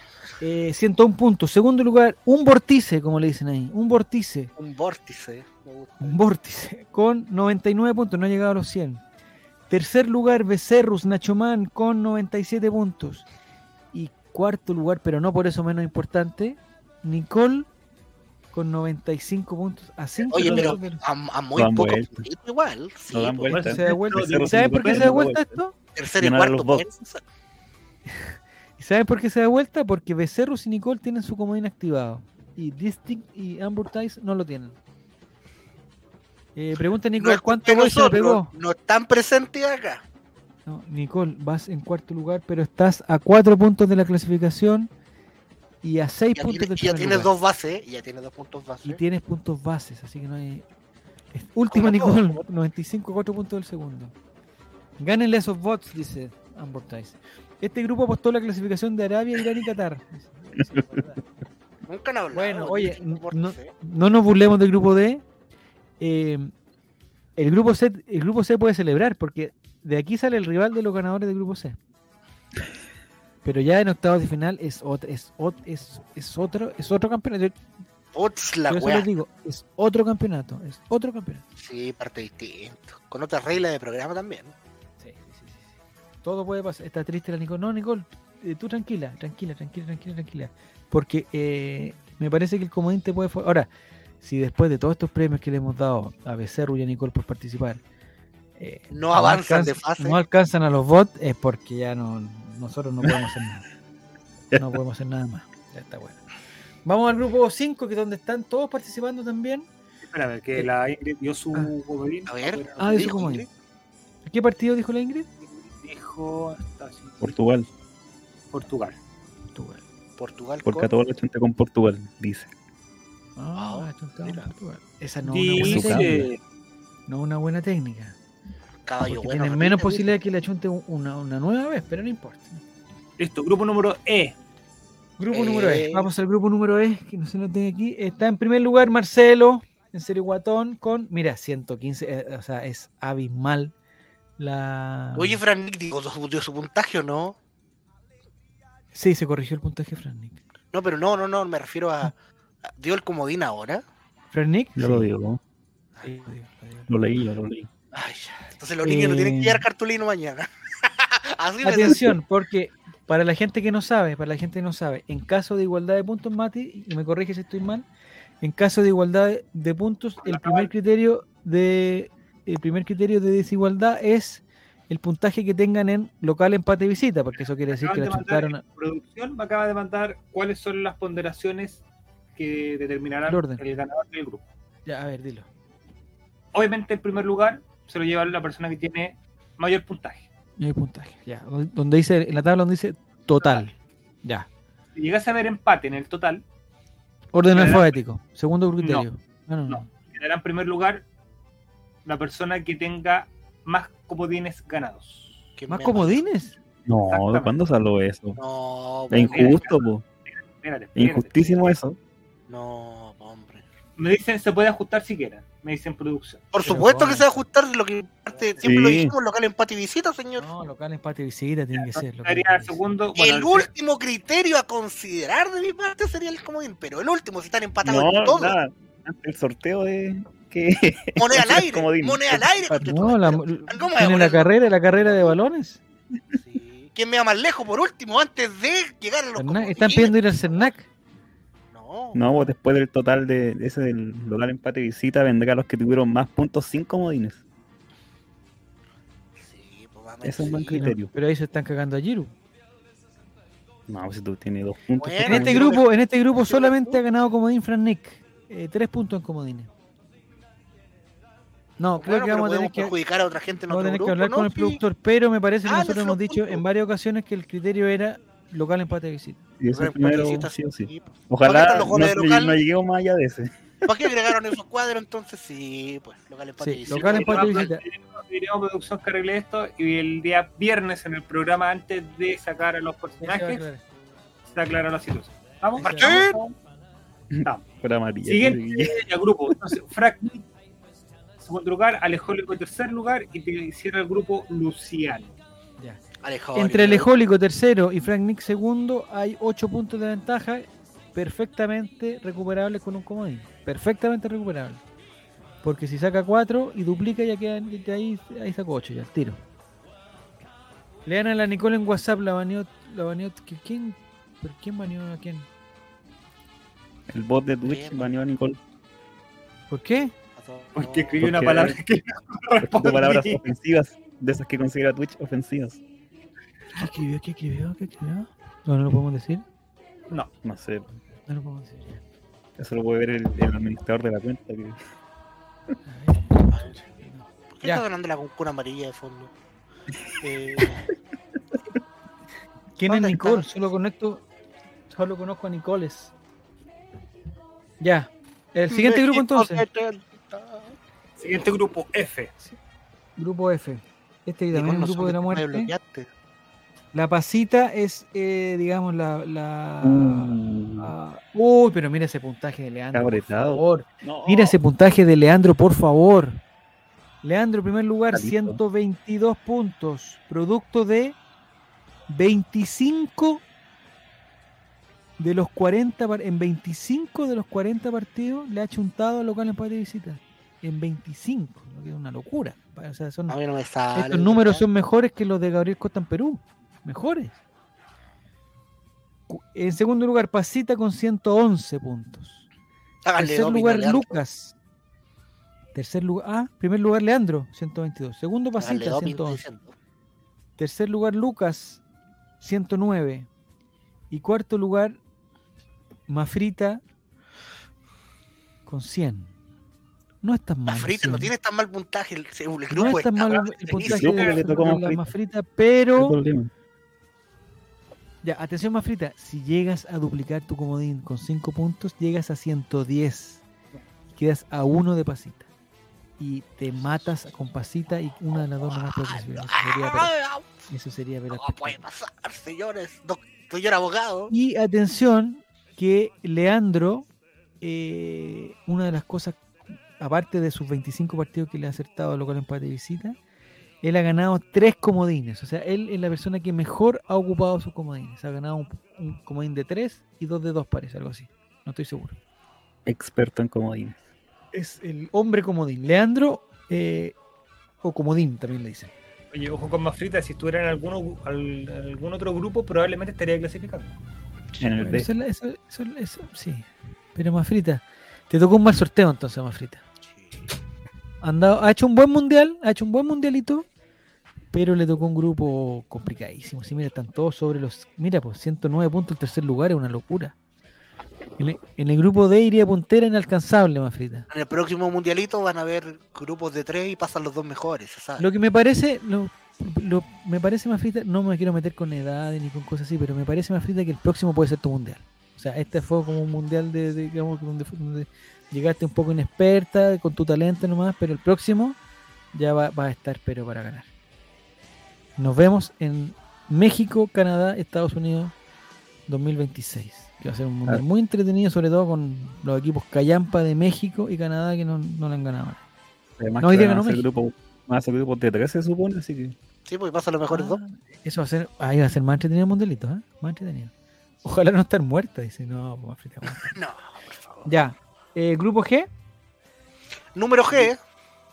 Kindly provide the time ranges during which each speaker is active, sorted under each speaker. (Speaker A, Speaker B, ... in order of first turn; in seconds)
Speaker A: 0.4-4.5, 6.0-9.0, 9.7-13.3, 13.9-17.7, 18.5-21.0, 23.7-25.8, 28.1-34.8, 36.6-38.5, 40.7-44.9, 45.8-47.3, 48.8-50.6, 51.3-54.1, 55.0-61.2, 62.3-65.2, 66.0-66.5, 67.4-71.8, 73.4-77.6, 78.7-81.4, 85.0-93.7, 94.2-97.8, 98.6-103.7, 104.6-106.2, 106.8-109.7, 112.8-113.5, 114.3-115.3, 119.5-119.8, 123.4-126.3, 127.1-128.2, 129.0-132.6, 135.2-143.7, 144.4-145.4, 148.9-150.4, 154.3-155.1, 156.0-156.9, 158.8-159.7, 161.6-167.9, 168.4-178.6, 183.3-183.6, 184.9-185.5, 190.6-193.7, 197.3-199.9, 205.7-206.6, 216.6-217.3, 220.4-222.8, 232.8-235.8, 239.4-240.9, 250.7-252.3, 255.2-259.7, 261.8-263.0, 263.7-269.4, 276.6-277.8, 283.2-283.8, 285.8-286.2, 296.6-304.8, 305.6-309.4, 311.1-315.5, 319.7-320.1, 326.8-329.4, 331.3-332.0, 335.9-337.9, 342.8-344.2, 344.9-346.1, 347.8-349.6, 353.2-355.7, 356.9-366.4, 367.2-371.2, 372.1-373.4, 375.2-383.4, 383.9-387.4, 389.3-392.5, 393.2-394.6, 395.7-399.4, 400.6-401.8, 402.4-403.3, 404.1-405.0, 406.1-406.8, 408.7-409.3, 410.2-411.3, 412.7-416.2, 418.2-423.4, 424.2-425.5, 426.2-430.2, 430.7-431.8, 434.3-437.1, 437.6-439.4, 440.0-443.2, 443.8-452.2, 454.5-457.1, 457.8-458.9, 464.8-469.8, 471.2-473.7, 474.5-480.3, 481.4-484.3, 488.2-501.8, 502.3-503.9, 505.2-508.3, 509.1-515.6, 516.4-517.0, 520.3-523.7, 524.2-526.6, 527.5-528.9
Speaker B: 4.6-6.2, 20.3-23.7, 25.9-27.2, 37.2-40.0, 46.4-49.0, 51.7-52.4, 61.9-63.7, 78.1-79.1, 81.6-84.5, 98.9-100.2, 112.3-113.5, 120.2-120.9, 123.5-124.5, 128.9-130.2, 135.3-136.1, 145.2-147.4, 150.7-153.8, 157.9-162.0, 205.6-206.2, 208.4-209.7, 212.5-213.7, 216.5-220.5, 223.2-228.6, 231.2-235.3, 236.3-240.7, 241.7-242.5, 249.4-250.9, 254.9-257.0, 261.9-264.8, 265.6-266.6, 269.7-272.6, 273.9-277.7, 285.8-286.4, 296.2-297.1, 317.6-318.1, 320.4-321.4, 336.5-336.8, 337.5-339.3, 340.2-340.9, 342.9-343.6, 348.7-350.8, 354.5-356.1, 383.3-384.6, 393.1-394.2, 398.6-399.8, 410.7-414.4, 428.6-430.5, 431.3-434.3, 470.1-470.4, 484.3-488.3, 519.7-520.6, 526.3-527.5, 530.1-530.8
Speaker C: 21.6-22.3, 23.1-25.5, 26.2-26.9, 117.2-117.7, 120.7-122.5, 125.6-126.3, 154.8-155.4, 156.9-157.7, 206.9-208.4, 209.1-210.0, 211.0-212.0, 218.6-219.1, 227.8-232.9, 242.1-247.4, 250.2-251.1, 253.9-255.8, 269.6-273.9, 287.3-289.0, 317.1-318.6, 321.2-321.8, 322.6-325.8, 330.4-331.0, 332.6-334.8, 359.8-360.9, 362.9-364.6, 368.1-368.6, 413.8-415.1, 416.0-416.5, 452.9-454.0, 464.6-465.1, 516.2-519.4
Speaker D: 23.5-25.2, 110.1-113.0, 115.5-117.3, 118.5-119.0, 125.2-126.4, 133.2-134.3, 170.2-170.7, 177.3-181.8, 182.4-184.4, 186.5-190.3, 193.4-193.7, 194.9-196.4, 197.5-198.0, 199.7-201.0, 202.1-205.4, 207.1-207.6, 209.3-211.7, 214.0-216.5, 221.8-223.7, 276.9-283.6, 284.5-286.5, 288.2-290.4, 291.4-295.3, 320.8-323.4, 351.2-352.3, 459.3-463.9